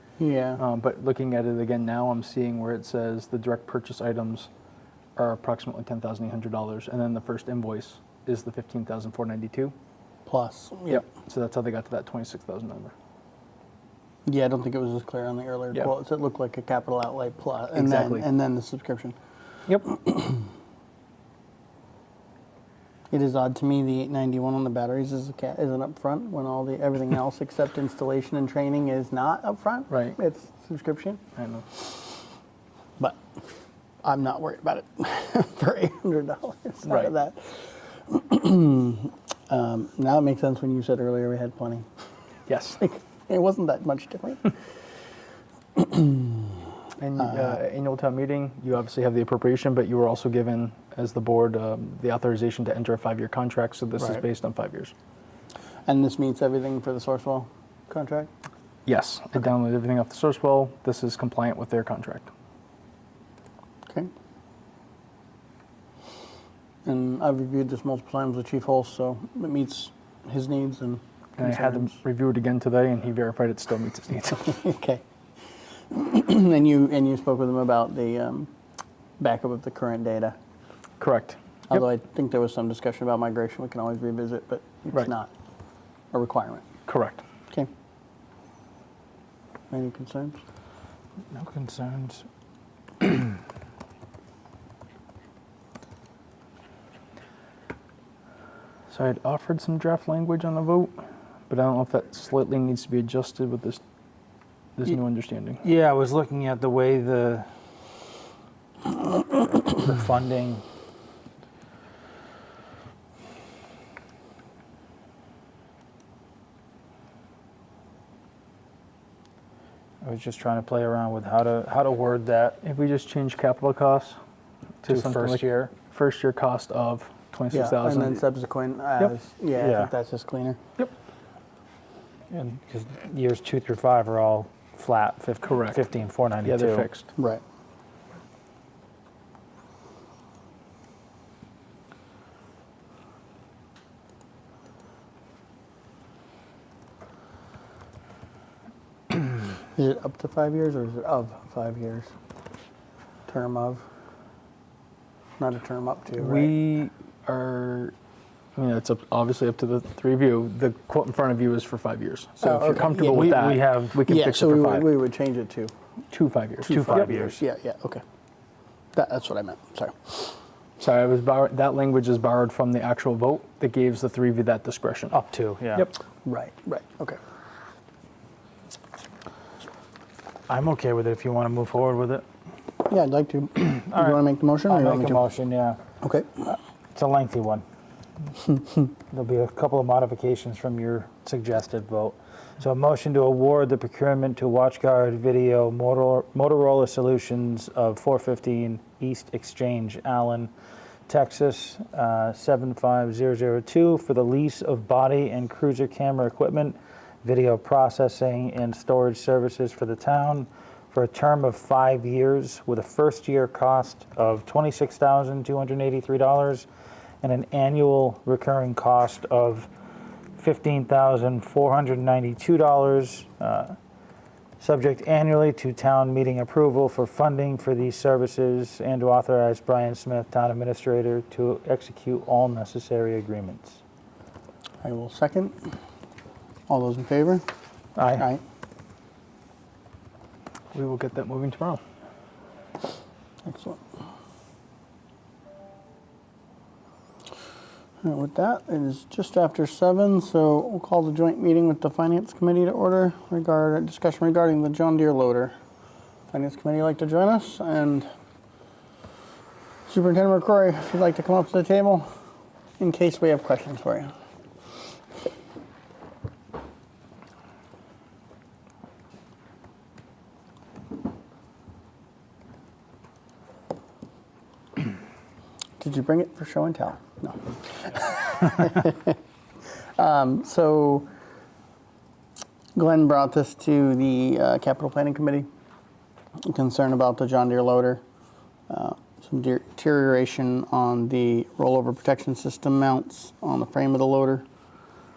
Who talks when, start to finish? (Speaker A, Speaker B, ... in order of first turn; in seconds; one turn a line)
Speaker A: 0.2-0.6
Speaker B: 0.6-4.5
Speaker B: 5.2-9.8
Speaker A: 10.3-11.0
Speaker B: 10.9-12.9
Speaker A: 14.2-19.2
Speaker B: 17.8-18.3
Speaker A: 19.8-20.4
Speaker A: 23.1-31.2
Speaker B: 29.9-30.2
Speaker B: 31.4-31.7
Speaker A: 34.0-41.9
Speaker B: 36.9-37.1
Speaker B: 42.5-42.8
Speaker A: 42.8-44.5
Speaker A: 45.8-46.6
Speaker B: 47.0-54.9
Speaker A: 55.9-58.3
Speaker B: 58.9-62.3
Speaker A: 66.8-72.0
Speaker B: 71.4-74.5
Speaker A: 74.4-75.0
Speaker A: 75.9-78.5
Speaker A: 79.2-80.3
Speaker B: 81.0-81.7
Speaker A: 81.7-85.3
Speaker A: 86.1-86.7
Speaker B: 86.9-87.2
Speaker A: 89.7-90.4
Speaker C: 91.3-92.3
Speaker C: 93.0-93.3
Speaker B: 98.9-101.0
Speaker B: 101.5-103.8
Speaker B: 104.8-105.6
Speaker C: 105.6-107.5
Speaker C: 109.5-110.6
Speaker C: 120.0-122.6
Speaker B: 122.6-124.2
Speaker B: 124.8-128.2
Speaker C: 124.8-125.7
Speaker A: 127.5-130.6
Speaker C: 129.6-129.9
Speaker C: 132.3-136.9
Speaker B: 135.4-135.8
Speaker B: 136.4-137.1
Speaker A: 137.2-137.4
Speaker A: 149.6-152.1
Speaker A: 153.3-153.8
Speaker A: 155.4-156.5
Speaker B: 156.2-157.9
Speaker B: 158.6-164.9
Speaker A: 162.4-163.4
Speaker C: 162.9-164.1
Speaker A: 164.1-165.7
Speaker B: 166.1-167.1
Speaker C: 166.7-167.4
Speaker A: 166.7-168.0
Speaker A: 168.9-170.3
Speaker B: 170.8-175.2
Speaker C: 175.1-175.9
Speaker A: 176.2-177.2
Speaker C: 180.5-182.2
Speaker A: 182.8-185.2
Speaker C: 183.9-185.8
Speaker A: 186.0-186.5
Speaker C: 186.9-187.6
Speaker C: 189.1-200.5
Speaker C: 201.1-216.7
Speaker C: 217.2-219.7
Speaker C: 220.4-223.8
Speaker C: 224.6-233.8
Speaker A: 234.8-235.6
Speaker A: 236.7-237.4
Speaker C: 238.0-238.3
Speaker B: 240.7-241.8
Speaker A: 243.4-243.8
Speaker A: 248.0-255.5
Speaker A: 256.3-258.1
Speaker A: 259.9-262.1
Speaker A: 262.8-264.1
Speaker A: 275.8-279.2
Speaker A: 280.0-281.1
Speaker A: 282.8-285.5
Speaker A: 286.5-288.0
Speaker A: 288.7-294.4